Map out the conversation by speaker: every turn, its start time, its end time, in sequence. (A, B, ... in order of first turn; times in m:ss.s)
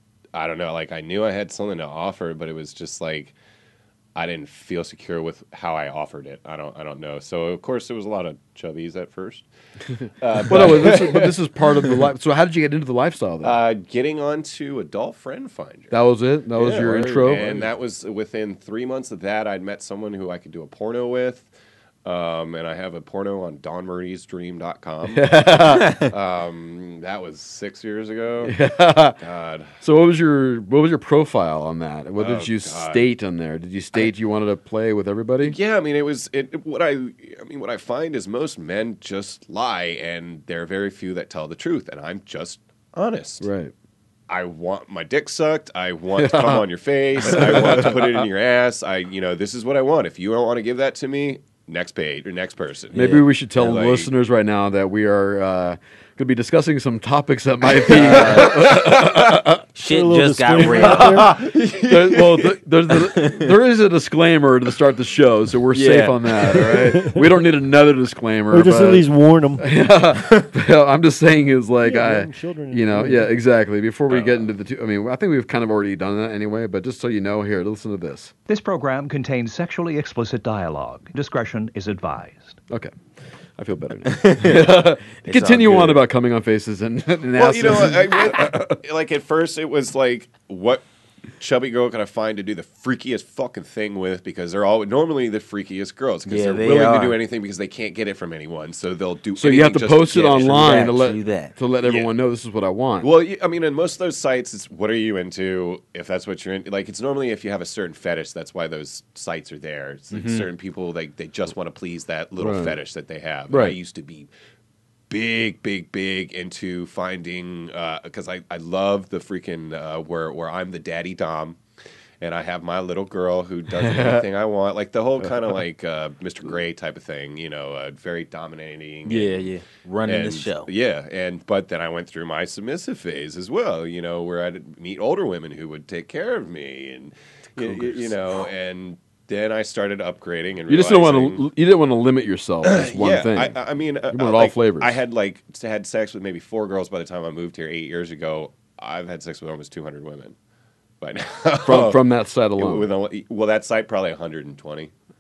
0:00.3-0:03.4 A
0:04.2-0:09.4 A
0:10.2-0:12.1 A
0:10.5-0:13.6 B
0:13.4-0:16.0 A
0:15.9-0:17.7 B
0:16.5-0:21.5 A
0:22.0-0:28.6 A
0:25.1-0:26.0 B
0:28.4-0:29.2 B
0:29.2-0:29.7 A
0:29.8-0:35.6 B
0:32.2-0:33.1 A
0:35.4-0:43.5 A
0:43.4-0:43.7 B
0:44.3-0:54.1 A
0:46.2-0:46.6 B
0:47.3-0:47.9 B
0:52.9-0:53.8 C
0:52.9-0:59.6 B
0:57.8-0:59.4 A
0:57.9-0:58.5 C
0:59.8-1:01.3 C
0:59.9-1:01.3 D
1:00.6-1:02.5 A
1:01.9-1:09.1 B
1:03.1-1:03.5 C
1:05.7-1:07.0 C
1:06.7-1:07.2 D
1:08.5-1:09.7 D
1:09.6-1:18.3 B
1:11.8-1:13.3 D
1:14.1-1:14.4 A
1:18.5-1:22.6 E
1:23.6-1:28.8 B
1:24.1-1:26.0 C
1:27.4-1:30.8 A
1:31.4-1:40.9 A
1:36.3-1:37.2 C
1:39.4-1:43.1 B
1:40.1-1:41.6 C
1:41.8-1:42.1 A
1:43.0-1:54.3 A
1:50.1-1:50.5 C
1:52.4-1:52.8 B
1:53.5-1:53.8 B
1:55.1-2:01.6 A
2:02.2-2:21.5 A
2:03.8-2:04.2 B
2:09.0-2:10.7 C
2:17.6-2:18.1 B
2:20.7-2:23.6 B
2:22.6-2:30.4 A
2:24.1-2:25.0 B
2:31.0-2:32.0 A
2:31.7-2:32.9 B
2:32.6-2:34.9 A